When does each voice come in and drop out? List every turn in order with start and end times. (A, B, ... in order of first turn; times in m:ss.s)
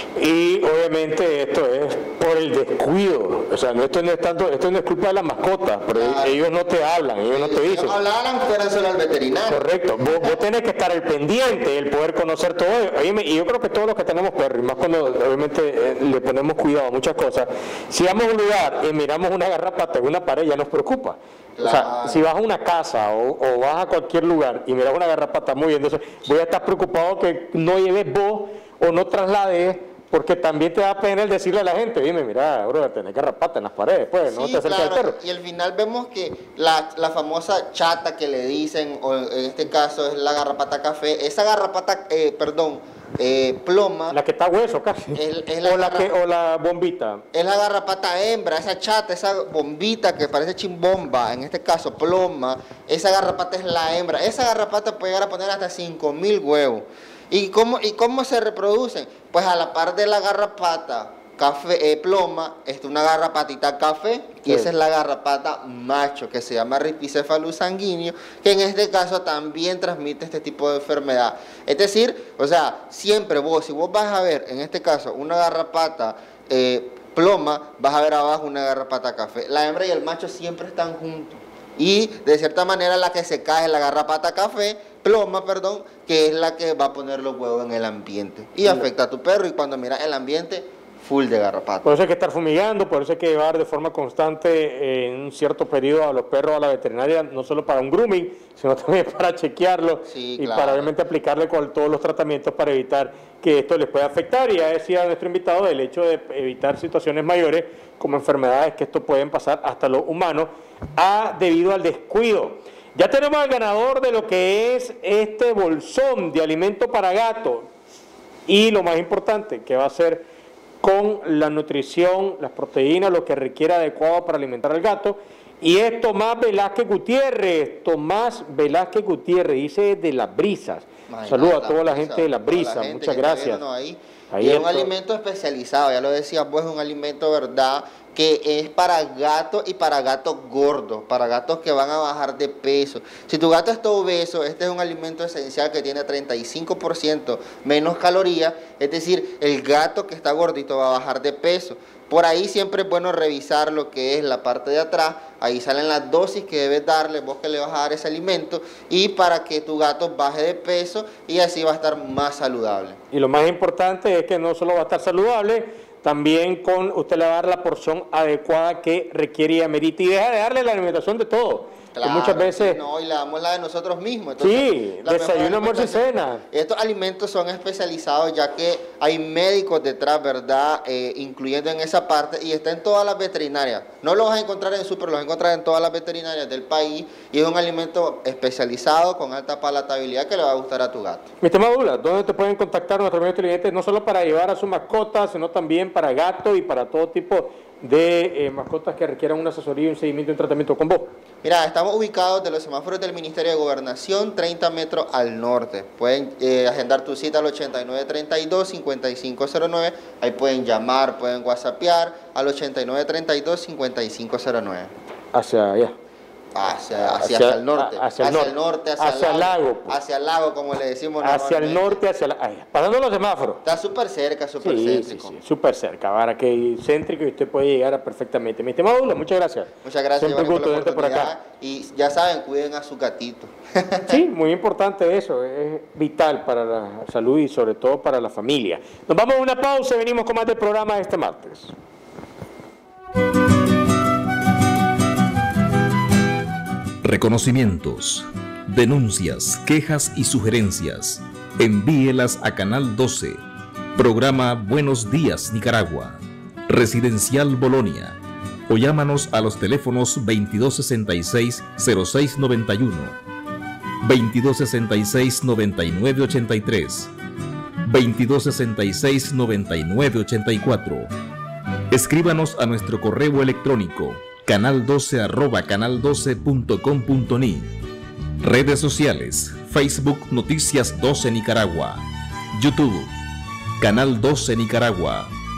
0:00.2-0:08.0 A
0:05.9-0:06.4 B
0:07.3-0:10.4 B
0:09.5-0:35.2 A
0:21.6-0:22.2 B
0:34.3-0:44.2 B
0:44.1-0:47.2 A
0:45.1-0:46.1 B
0:47.3-1:32.0 B
1:31.8-1:57.7 A
1:40.1-1:40.9 B
1:58.5-2:00.2 A
2:00.8-2:13.6 A
2:11.1-2:43.0 B
2:14.3-2:14.9 A
2:43.1-2:52.8 A
2:51.9-3:11.3 B
2:54.4-2:56.4 A
3:11.4-3:21.1 A
3:21.4-3:34.9 B
3:35.3-3:35.9 A
3:36.5-3:42.0 B
3:37.2-3:40.0 A
3:41.2-3:43.6 A
3:43.6-3:45.4 B
3:44.6-3:51.3 A
3:49.8-3:54.2 B
3:54.1-4:01.7 A
4:07.0-4:13.4 C
4:14.0-4:18.2 C
4:18.7-4:23.2 C
4:24.0-4:27.1 C
4:27.8-4:31.1 C
4:31.9-4:37.7 C
4:38.4-4:43.1 C
4:43.8-4:45.3 C